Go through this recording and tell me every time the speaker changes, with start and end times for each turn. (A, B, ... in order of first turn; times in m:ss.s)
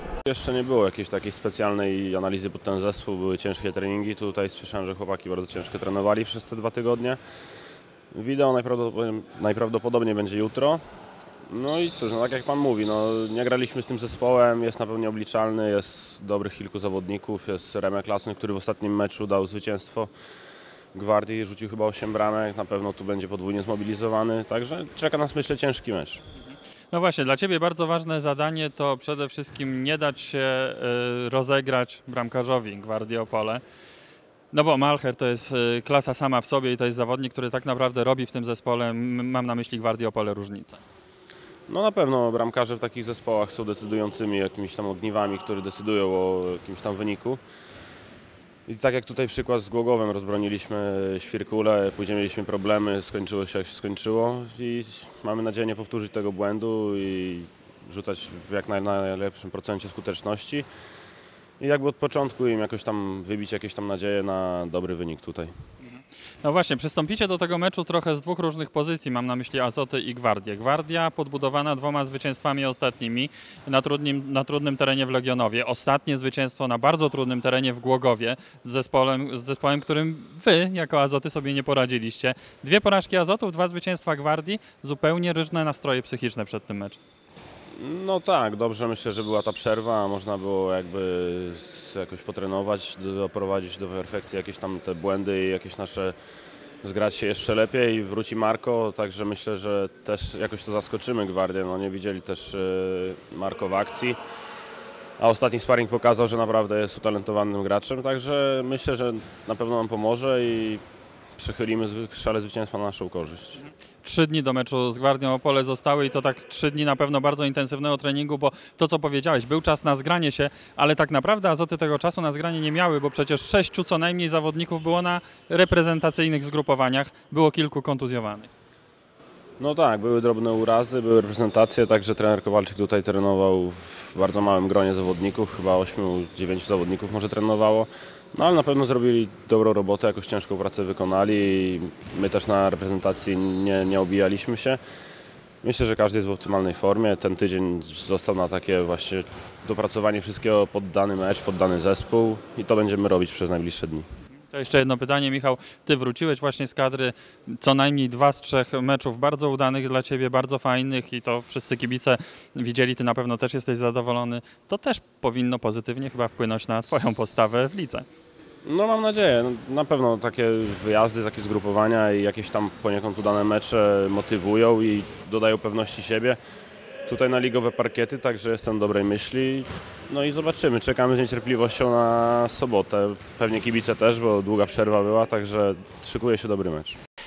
0:00.3-0:07.2 A
0:08.1-0:10.8 A
0:11.5-0:20.1 A
0:20.9-0:26.2 A
0:26.9-0:33.6 B
0:34.5-0:40.8 B
0:41.7-0:47.4 A
0:48.7-1:00.7 A
1:01.6-1:05.5 A
1:05.8-1:27.0 B
1:27.8-1:36.2 A
1:36.8-1:44.2 A
1:45.2-1:50.8 A
1:51.4-1:53.6 A
1:54.0-2:08.5 B
2:09.6-2:24.8 A
2:25.6-2:34.1 A
2:34.5-2:48.1 B
2:48.6-2:56.4 A
2:57.1-3:07.0 A